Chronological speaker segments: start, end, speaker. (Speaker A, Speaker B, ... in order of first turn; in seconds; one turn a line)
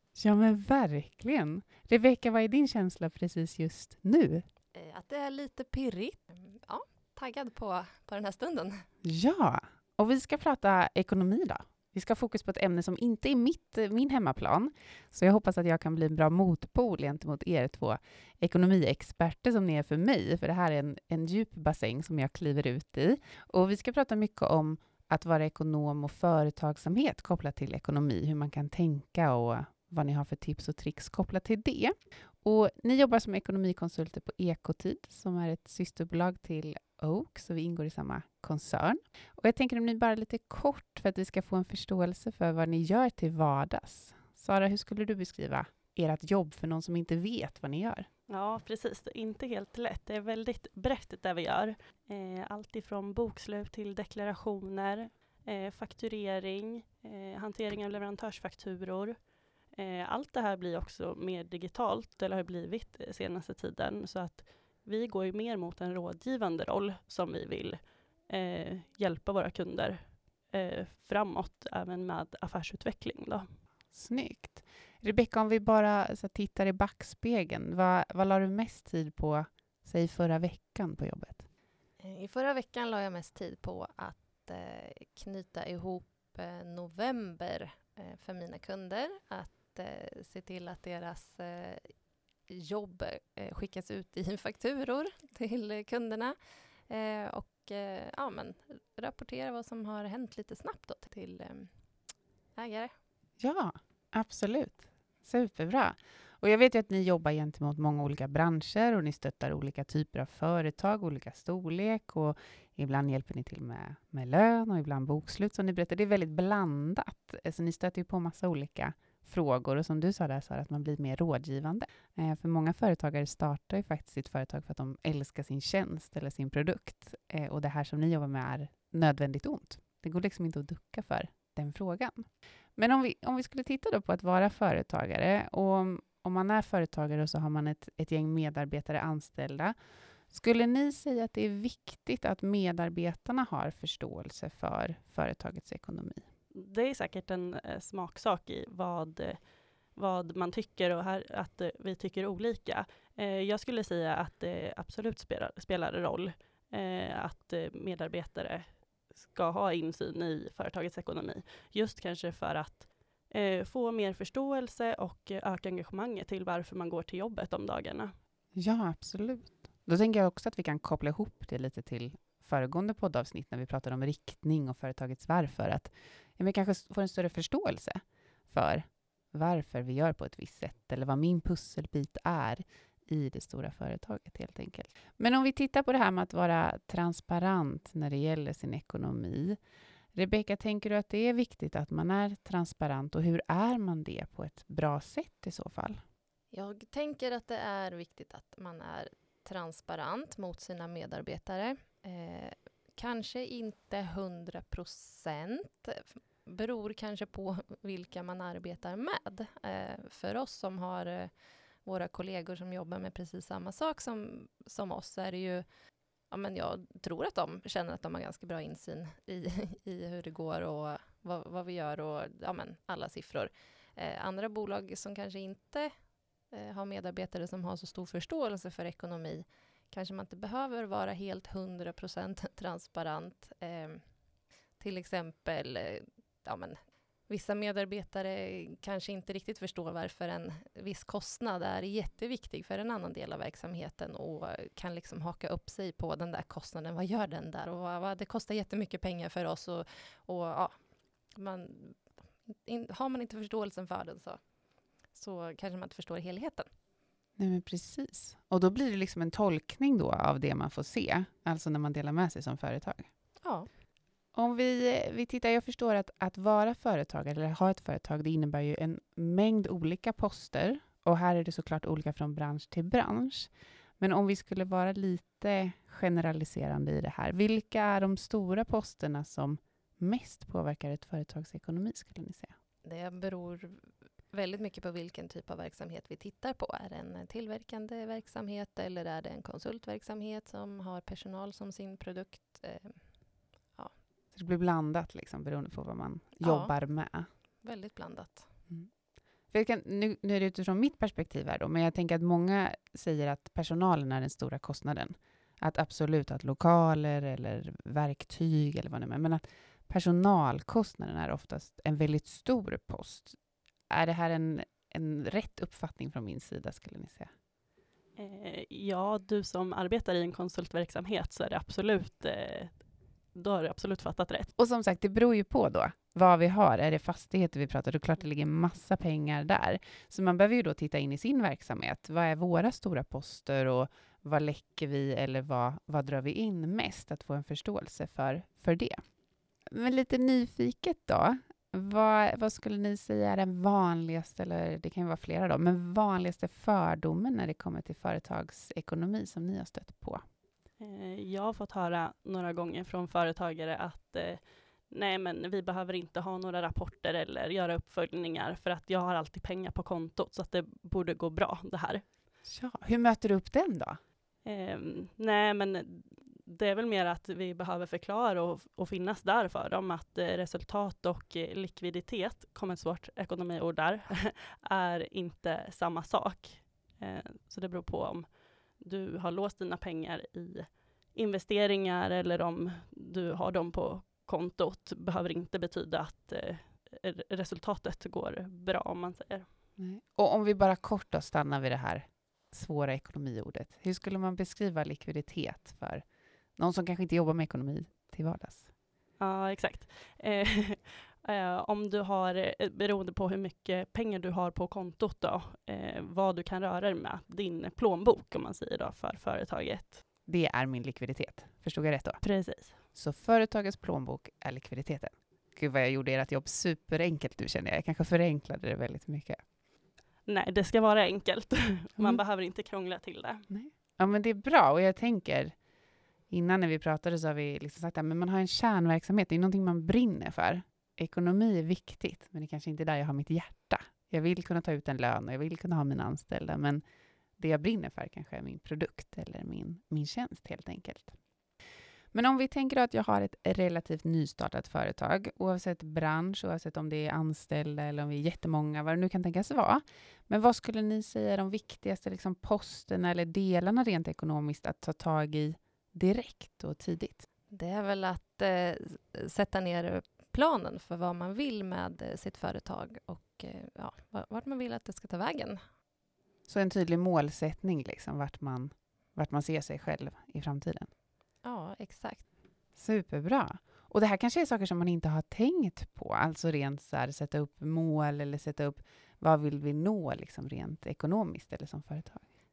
Speaker A: 0.1-4.4
Speaker B: 4.8-8.8
Speaker A: 9.0-48.1
Speaker C: 48.3-73.5
Speaker A: 73.9-81.4
Speaker B: 82.0-91.9
Speaker B: 92.5-96.3
Speaker B: 96.9-101.7
Speaker B: 102.6-102.9
Speaker A: 103.4-139.7
Speaker A: 140.3-146.2
Speaker C: 146.5-168.1
Speaker A: 168.5-189.6
Speaker A: 190.1-196.0
Speaker B: 196.5-211.3
Speaker B: 211.8-215.7
Speaker B: 216.3-225.9
Speaker B: 226.5-234.0
Speaker B: 234.8-250.7
Speaker B: 251.3-254.4
Speaker B: 255.1-256.7
Speaker A: 257.4-263.1
Speaker B: 263.4-263.7
Speaker A: 264.3-282.5
Speaker B: 282.9-293.2
Speaker A: 294.3-297.3
Speaker B: 296.4-296.7
Speaker B: 297.6-298.5
Speaker A: 299.5-313.4
Speaker A: 313.9-317.3
Speaker C: 318.2-324.5
Speaker A: 324.6-339.0
Speaker A: 339.7-350.2
Speaker C: 350.8-362.0
Speaker A: 362.4-364.0
Speaker C: 364.4-389.5
Speaker A: 389.8-396.0
Speaker A: 396.6-398.7
Speaker C: 399.2-410.0
Speaker A: 410.3-412.2
Speaker C: 412.2-412.8
Speaker A: 412.9-419.4
Speaker C: 420.2-423.4
Speaker A: 423.5-425.5
Speaker A: 426.3-436.8
Speaker A: 437.4-441.1
Speaker A: 442.1-457.2
Speaker B: 457.5-465.6
Speaker A: 466.5-470.9
Speaker B: 471.4-472.2
Speaker A: 472.8-482.3